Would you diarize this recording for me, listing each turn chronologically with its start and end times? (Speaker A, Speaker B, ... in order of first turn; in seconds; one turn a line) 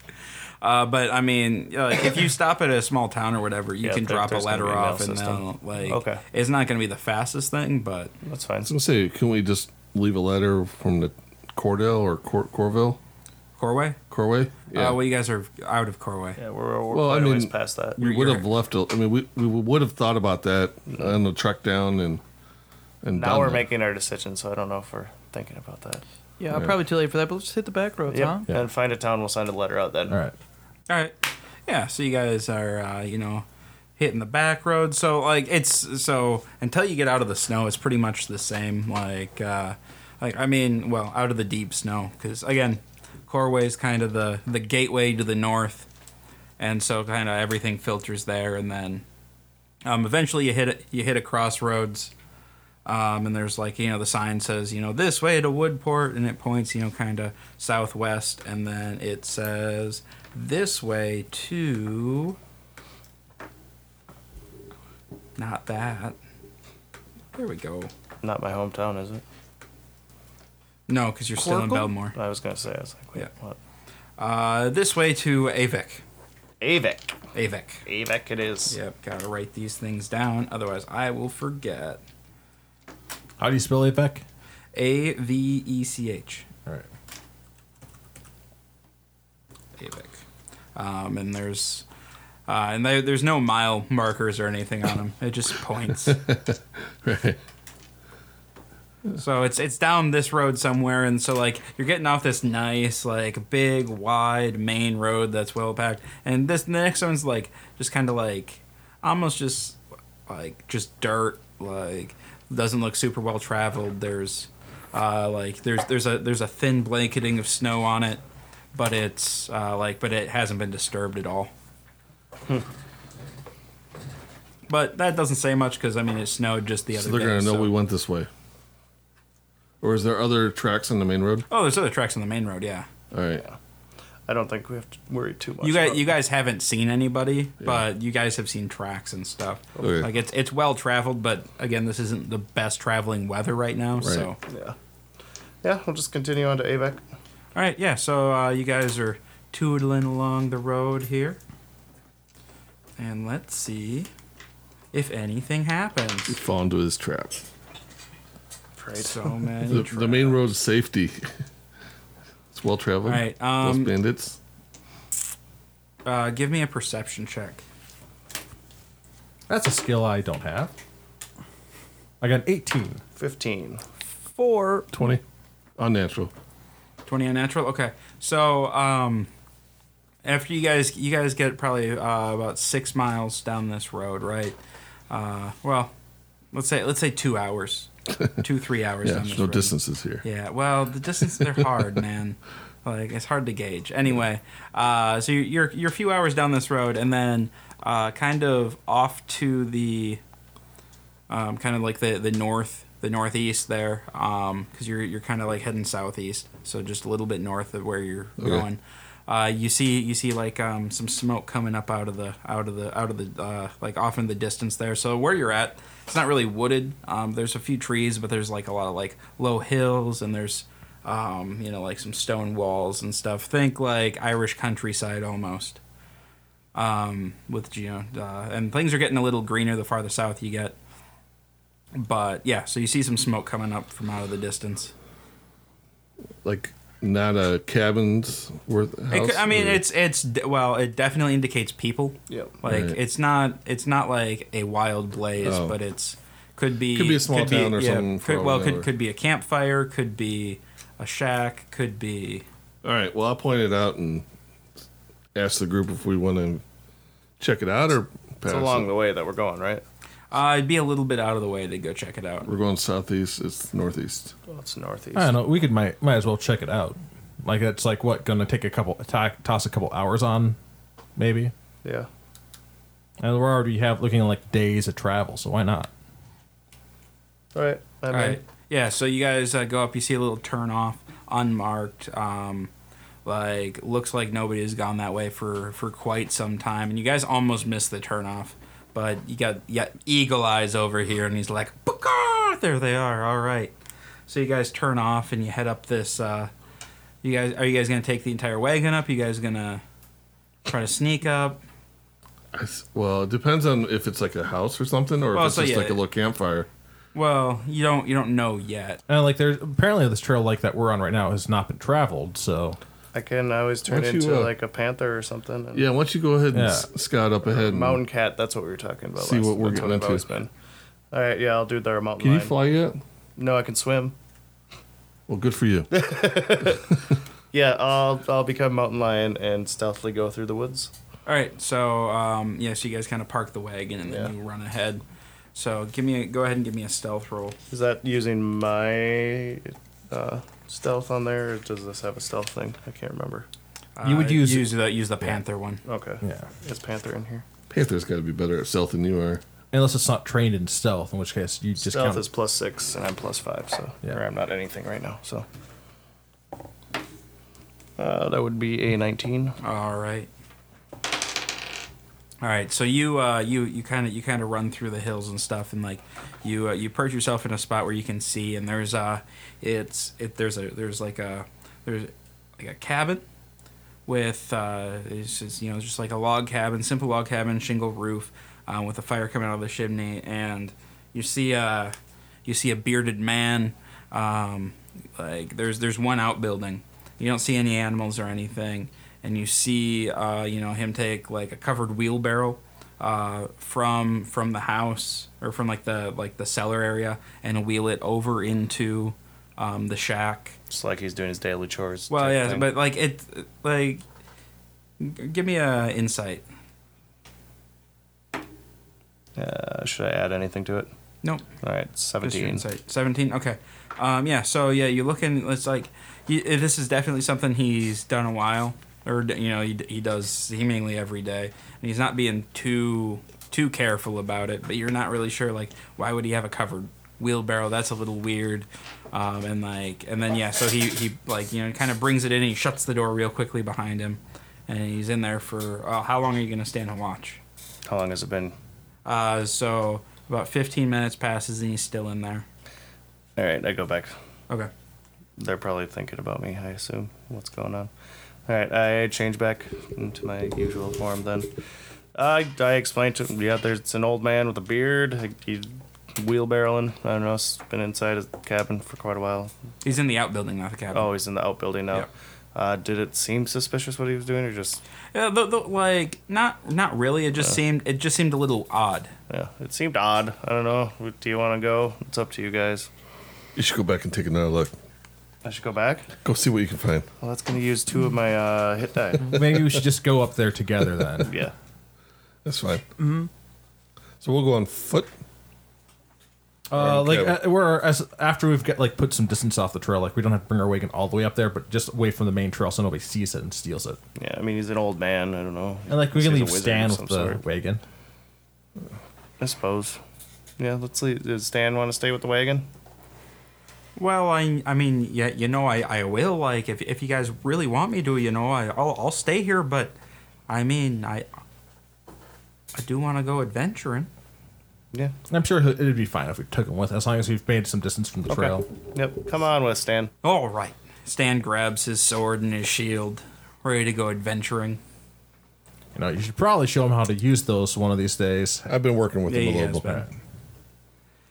Speaker A: 0.6-8.1
Speaker B: 3.8-6.2
Speaker B: 8.2-8.7
Speaker C: 8.7-13.0
Speaker A: 13.6-14.0
Speaker C: 14.1-15.0
Speaker A: 14.7-16.4
Speaker B: 16.4-18.0
Speaker C: 16.9-22.2
Speaker A: 18.0-18.5
Speaker C: 23.0-23.7
Speaker B: 23.1-26.0
Speaker D: 26.4-28.5
Speaker C: 26.5-26.8
Speaker B: 28.1-30.2
Speaker E: 30.1-30.4
Speaker A: 30.9-31.1
Speaker A: 31.7-33.5
Speaker A: 34.0-45.9
Speaker A: 46.6-49.0
Speaker A: 49.9-52.1
Speaker A: 52.9-62.4
Speaker A: 65.4-66.2
Speaker A: 67.3-67.9
Speaker B: 68.2-69.2
Speaker A: 70.9-72.2
Speaker D: 71.4-71.9
Speaker B: 72.1-73.6
Speaker A: 74.2-76.0
Speaker B: 76.6-77.2
Speaker A: 77.3-77.8
Speaker B: 77.9-78.8
Speaker A: 78.7-82.0
Speaker E: 83.4-84.2
Speaker A: 84.8-86.5
Speaker A: 89.8-90.2
Speaker A: 90.8-91.8
Speaker A: 92.5-96.2
Speaker C: 96.1-97.4
Speaker A: 99.2-118.2
Speaker A: 118.7-121.5
Speaker A: 124.7-127.7
Speaker C: 126.9-128.3
Speaker C: 129.8-131.5
Speaker A: 131.5-132.9
Speaker C: 133.1-133.4
Speaker B: 134.3-136.1
Speaker A: 135.6-144.4
Speaker C: 139.8-140.1
Speaker C: 144.0-144.3
Speaker B: 144.5-144.8
Speaker B: 145.6-147.0
Speaker A: 147.6-151.4
Speaker A: 153.0-154.1
Speaker A: 154.9-156.4
Speaker C: 156.3-157.4
Speaker B: 158.8-159.3
Speaker A: 159.0-160.4
Speaker C: 159.7-161.3
Speaker C: 162.5-164.4
Speaker A: 163.1-163.9
Speaker A: 166.1-167.6
Speaker E: 169.5-170.7
Speaker E: 172.2-173.0
Speaker B: 173.2-173.8
Speaker D: 174.3-174.9
Speaker C: 174.9-175.2
Speaker C: 175.8-176.3
Speaker A: 177.1-179.3
Speaker A: 180.2-184.6
Speaker A: 185.1-185.9
Speaker A: 186.5-200.2
Speaker C: 189.0-190.2
Speaker A: 201.3-225.8
Speaker C: 208.4-208.7
Speaker A: 226.8-230.8
Speaker A: 231.9-234.9
Speaker C: 236.4-239.8
Speaker A: 239.1-252.4
Speaker B: 242.3-242.6
Speaker C: 242.7-243.0
Speaker C: 245.4-245.8
Speaker C: 246.9-248.9
Speaker C: 252.8-254.2
Speaker C: 255.3-256.6
Speaker C: 257.4-258.9
Speaker B: 258.5-259.8
Speaker A: 260.3-262.5
Speaker C: 262.5-264.3
Speaker B: 264.5-265.4
Speaker E: 265.1-270.6
Speaker E: 271.2-271.5
Speaker E: 273.2-275.9
Speaker B: 277.6-278.4
Speaker A: 278.1-282.7
Speaker A: 283.2-293.7
Speaker A: 294.3-296.5
Speaker A: 297.2-299.8
Speaker A: 300.7-301.6
Speaker C: 302.5-306.7
Speaker A: 305.3-306.0
Speaker A: 307.1-309.0
Speaker E: 309.1-312.8
Speaker B: 313.1-315.9
Speaker C: 313.9-314.5
Speaker C: 315.8-318.0
Speaker E: 316.5-316.9
Speaker B: 317.4-320.5
Speaker C: 319.2-320.2
Speaker B: 321.1-322.5
Speaker C: 322.2-323.0
Speaker B: 323.4-324.1
Speaker C: 325.3-325.9
Speaker B: 325.9-326.9
Speaker B: 327.5-330.9
Speaker A: 331.3-335.0
Speaker A: 335.6-337.6
Speaker B: 337.7-343.5
Speaker A: 344.0-345.8
Speaker E: 344.0-344.7
Speaker B: 345.9-347.4
Speaker E: 346.2-346.5
Speaker C: 347.7-349.4
Speaker E: 349.7-352.2
Speaker B: 351.8-355.5
Speaker B: 358.0-359.6
Speaker A: 359.6-360.3
Speaker A: 362.4-373.2
Speaker A: 374.1-400.6
Speaker B: 400.7-402.7
Speaker A: 402.1-404.0
Speaker A: 405.0-406.4
Speaker B: 409.4-410.9
Speaker B: 411.6-412.6
Speaker A: 412.2-437.4
Speaker B: 437.9-438.6
Speaker A: 439.1-442.5
Speaker B: 443.4-444.1
Speaker B: 445.4-447.9
Speaker B: 448.5-451.5
Speaker B: 452.1-459.5
Speaker A: 459.8-461.1
Speaker B: 460.9-464.8
Speaker A: 465.1-469.1
Speaker B: 469.3-472.9
Speaker C: 473.6-474.7
Speaker B: 475.4-476.1
Speaker C: 476.2-477.1
Speaker B: 477.2-479.4
Speaker E: 479.3-481.4
Speaker B: 481.2-481.5
Speaker C: 482.4-482.9
Speaker D: 483.0-483.3
Speaker C: 484.2-485.1
Speaker E: 486.7-494.0
Speaker C: 486.8-487.4
Speaker B: 494.2-497.4
Speaker E: 495.9-497.8
Speaker B: 499.4-500.0
Speaker B: 500.6-502.7
Speaker A: 504.0-509.9
Speaker A: 510.5-511.3
Speaker A: 512.8-514.1
Speaker E: 515.3-518.7
Speaker B: 518.3-520.1
Speaker A: 520.2-524.8
Speaker E: 526.0-528.7
Speaker C: 528.7-530.0
Speaker A: 529.3-530.1